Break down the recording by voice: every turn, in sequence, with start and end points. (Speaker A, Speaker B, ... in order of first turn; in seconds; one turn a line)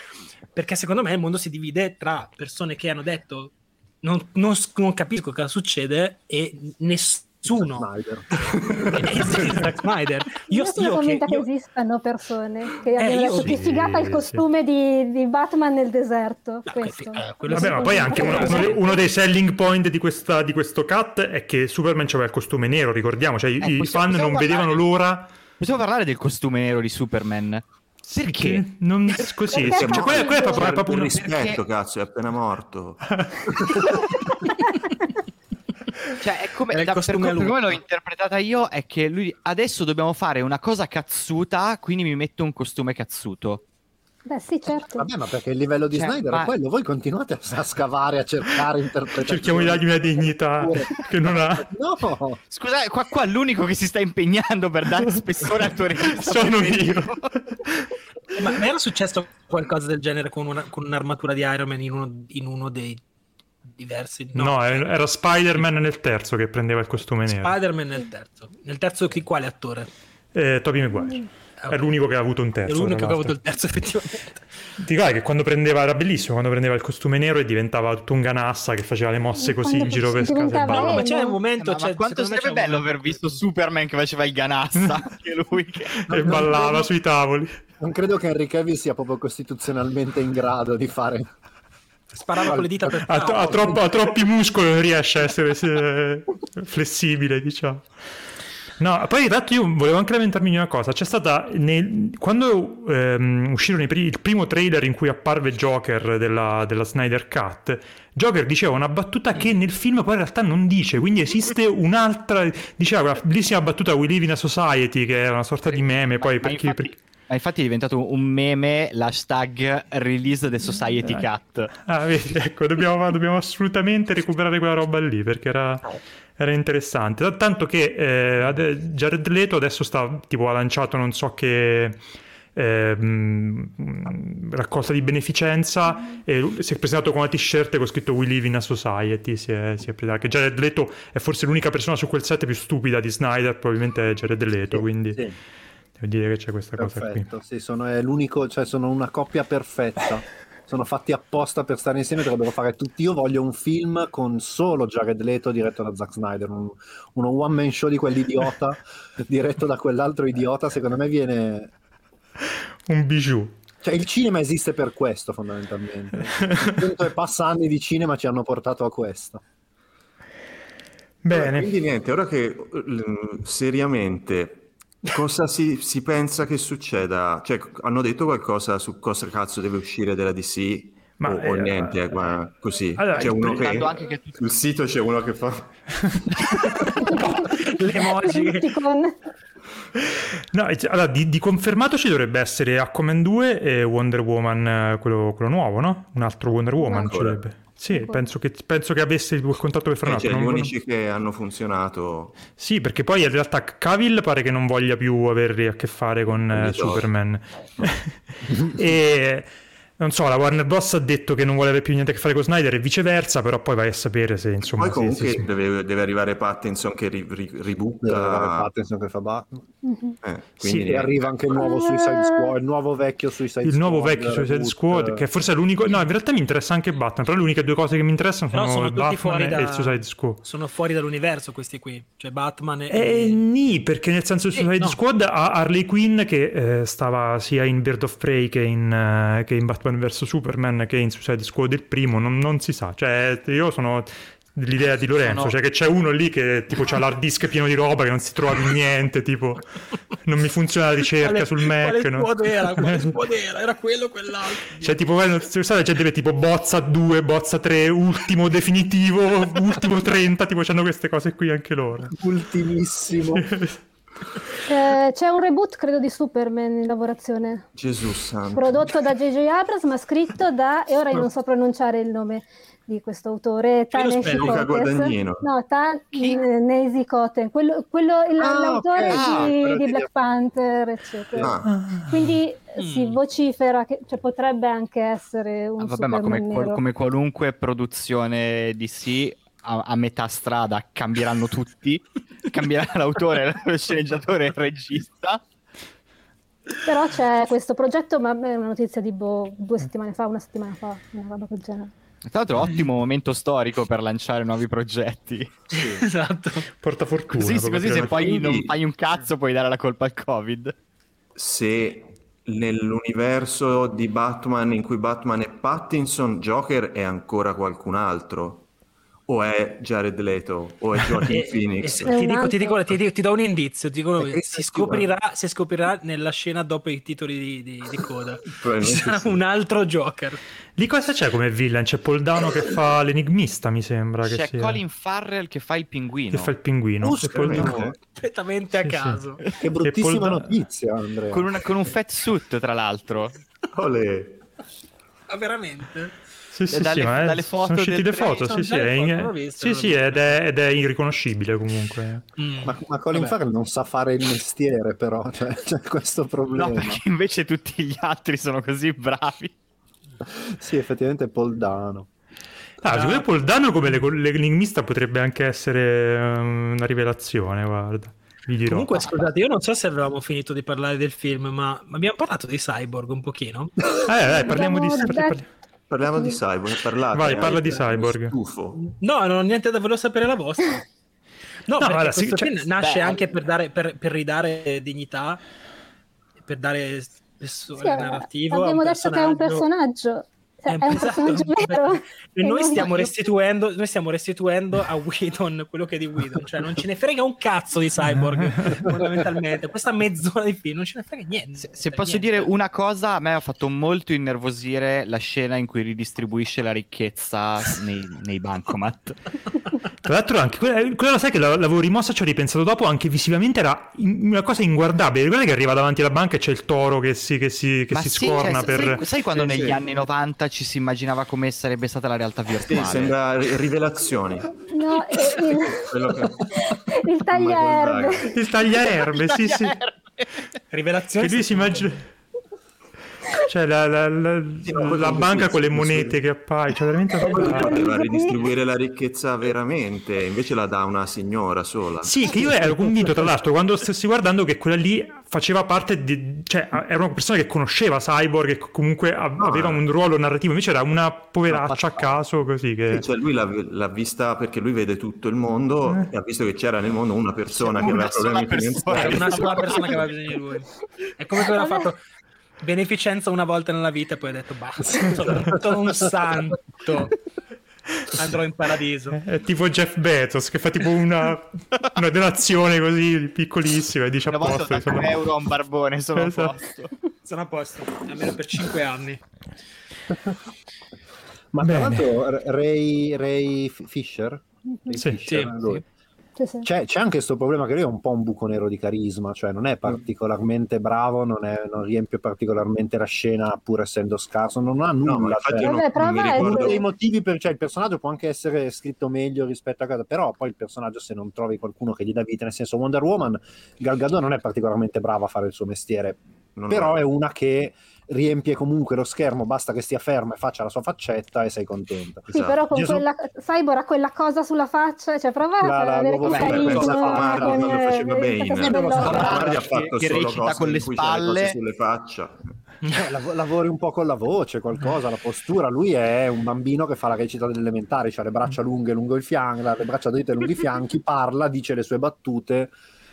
Speaker A: 0.5-7.9
Speaker B: 7.8-9.7
Speaker A: 8.9-11.4
Speaker C: 10.5-19.0
Speaker A: 13.0-13.6
Speaker D: 13.4-14.4
Speaker A: 16.7-18.9
Speaker D: 17.5-25.3
Speaker E: 23.6-24.8
Speaker E: 25.6-28.7
Speaker D: 28.2-31.3
Speaker C: 29.5-30.7
Speaker F: 29.6-34.1
Speaker E: 31.3-31.6
Speaker C: 34.4-34.8
Speaker E: 36.2-43.6
Speaker A: 36.7-37.8
Speaker C: 44.3-45.1
Speaker B: 44.9-52.4
Speaker E: 45.9-46.5
Speaker D: 49.2-51.7
Speaker E: 52.5-57.3
Speaker D: 56.1-57.9
Speaker A: 58.4-63.0
Speaker A: 63.7-64.9
Speaker D: 64.3-67.6
Speaker A: 67.3-69.9
Speaker D: 70.3-73.4
Speaker A: 71.6-71.9
Speaker A: 72.7-74.4
Speaker D: 74.8-81.0
Speaker C: 79.4-81.4
Speaker E: 80.7-81.1
Speaker A: 80.7-83.4
Speaker E: 81.6-86.2
Speaker D: 86.0-87.6
Speaker B: 86.1-86.9
Speaker B: 87.8-91.3
Speaker A: 92.1-93.9
Speaker B: 92.4-92.9
Speaker D: 93.0-97.9
Speaker D: 98.8-117.0
Speaker E: 115.7-121.7
Speaker D: 121.0-121.3
Speaker D: 121.9-132.0
Speaker D: 132.6-145.2
Speaker B: 144.7-145.4
Speaker D: 146.0-147.3
Speaker B: 146.8-161.7
Speaker D: 162.9-163.6
Speaker B: 163.8-169.4
Speaker D: 166.4-166.8
Speaker D: 171.2-171.7
Speaker F: 171.3-186.2
Speaker D: 181.2-182.1
Speaker D: 183.0-184.0
Speaker E: 183.2-184.4
Speaker C: 187.0-189.1
Speaker A: 187.0-188.8
Speaker D: 190.5-200.7
Speaker C: 196.8-197.2
Speaker F: 197.0-197.4
Speaker C: 197.9-198.2
Speaker F: 200.1-202.4
Speaker D: 202.6-215.5
Speaker F: 206.5-207.1
Speaker F: 214.8-218.7
Speaker B: 218.0-219.6
Speaker C: 219.8-220.2
Speaker F: 220.2-221.3
Speaker D: 220.6-221.1
Speaker B: 220.8-225.2
Speaker C: 221.6-222.5
Speaker D: 223.6-230.4
Speaker A: 228.5-233.4
Speaker D: 232.9-253.2
Speaker A: 234.5-235.0
Speaker E: 245.2-245.6
Speaker A: 251.2-255.0
Speaker D: 254.8-262.2
Speaker B: 262.1-263.5
Speaker D: 263.4-263.8
Speaker C: 264.7-267.7
Speaker F: 267.8-268.9
Speaker C: 268.5-286.8
Speaker A: 273.9-274.6
Speaker F: 274.4-275.4
Speaker E: 276.1-276.4
Speaker B: 278.4-280.1
Speaker E: 279.1-279.5
Speaker F: 281.4-281.8
Speaker D: 281.7-282.3
Speaker A: 282.8-283.2
Speaker E: 285.8-295.4
Speaker C: 296.9-301.9
Speaker E: 302.3-305.8
Speaker A: 305.8-306.7
Speaker D: 306.8-308.4
Speaker E: 307.3-310.8
Speaker F: 307.8-308.7
Speaker F: 311.4-318.7
Speaker F: 319.3-322.1
Speaker A: 321.2-330.4
Speaker C: 322.1-322.8
Speaker B: 324.2-325.1
Speaker F: 328.5-329.4
Speaker D: 330.8-334.8
Speaker E: 334.2-336.5
Speaker D: 336.3-337.8
Speaker B: 337.0-337.9
Speaker F: 337.3-338.0
Speaker A: 338.1-339.4
Speaker D: 338.8-340.5
Speaker B: 339.6-341.5
Speaker E: 341.3-343.3
Speaker F: 343.7-344.4
Speaker A: 345.3-346.2
Speaker D: 346.5-352.3
Speaker E: 346.7-348.3
Speaker A: 348.2-350.4
Speaker A: 352.4-353.3
Speaker B: 352.6-357.0
Speaker E: 356.5-359.5
Speaker B: 360.4-362.1
Speaker D: 362.8-369.0
Speaker A: 362.9-363.3
Speaker A: 368.7-374.0
Speaker D: 374.0-375.5
Speaker C: 374.4-375.4
Speaker F: 375.9-378.8
Speaker D: 377.1-378.4
Speaker A: 378.8-380.9
Speaker A: 381.7-385.4
Speaker D: 381.8-382.5
Speaker E: 382.8-383.3
Speaker A: 386.4-389.7
Speaker C: 387.8-393.1
Speaker A: 390.7-402.5
Speaker E: 392.8-393.1
Speaker E: 401.6-409.2
Speaker D: 410.1-419.0
Speaker E: 417.9-423.2
Speaker F: 419.3-419.9
Speaker F: 422.6-424.6
Speaker C: 424.7-426.0
Speaker F: 425.1-428.3
Speaker C: 426.7-428.3
Speaker D: 428.3-429.8
Speaker E: 429.1-430.4
Speaker A: 430.7-431.9
Speaker D: 431.2-432.1
Speaker D: 433.4-437.8
Speaker F: 434.6-436.2
Speaker F: 437.2-442.5
Speaker C: 437.4-438.4
Speaker D: 442.0-453.1
Speaker F: 449.4-449.8
Speaker B: 451.5-452.1
Speaker F: 452.9-459.8
Speaker D: 455.8-456.1
Speaker E: 457.6-460.0
Speaker A: 458.9-462.0
Speaker A: 462.6-467.1
Speaker A: 468.1-469.2
Speaker D: 469.1-475.2
Speaker E: 474.3-476.9
Speaker D: 476.1-476.6
Speaker A: 477.2-479.2
Speaker B: 481.5-485.8
Speaker D: 481.6-482.1
Speaker D: 485.0-485.2
Speaker A: 485.3-485.5
Speaker E: 485.5-485.8
Speaker C: 486.4-486.7
Speaker B: 486.6-513.0
Speaker F: 495.0-496.8
Speaker C: 495.6-496.9
Speaker F: 506.6-507.0
Speaker C: 512.3-519.4
Speaker F: 512.3-512.6
Speaker B: 515.6-517.9
Speaker F: 516.3-522.5
Speaker E: 516.4-516.8
Speaker B: 518.6-519.6
Speaker E: 518.9-521.6
Speaker B: 522.9-532.7